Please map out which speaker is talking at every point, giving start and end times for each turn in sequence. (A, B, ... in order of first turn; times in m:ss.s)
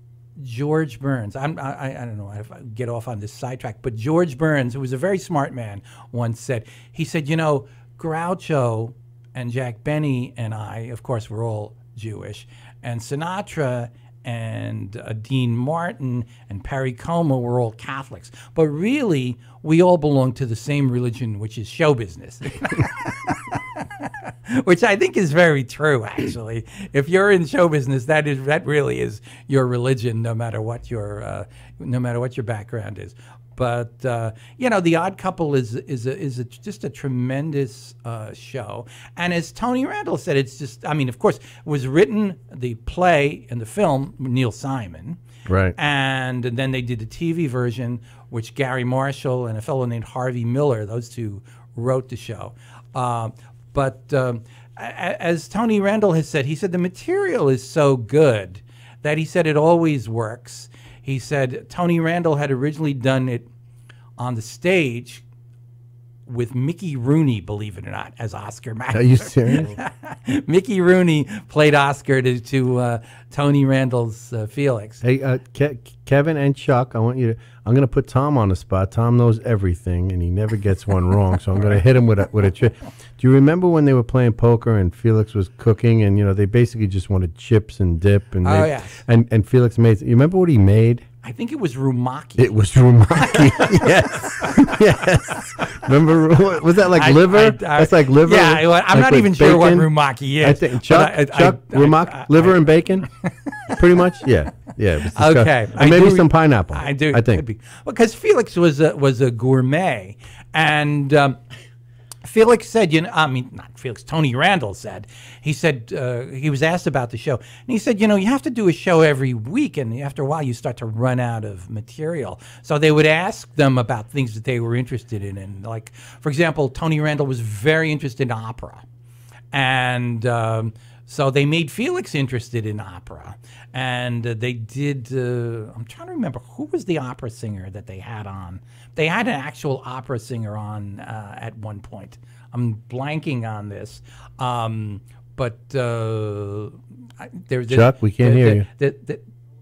0:00.4-0:45.2 A
0:45.4-0:45.7 B
0:45.8-1:03.5 A
1:04.2-1:05.2 A
1:06.2-1:15.0 A
1:08.9-1:09.7 B
1:15.0-1:31.0 B
1:28.4-1:29.0 A
1:31.2-1:32.6 A
1:32.4-1:43.1 B
1:33.1-1:34.8 A
1:36.9-1:42.6 A
1:43.2-1:43.8 A
1:43.8-1:47.4 B
1:45.1-1:51.4 A
1:52.2-2:08.8 A
2:09.5-2:29.2 A
2:27.7-2:28.7 B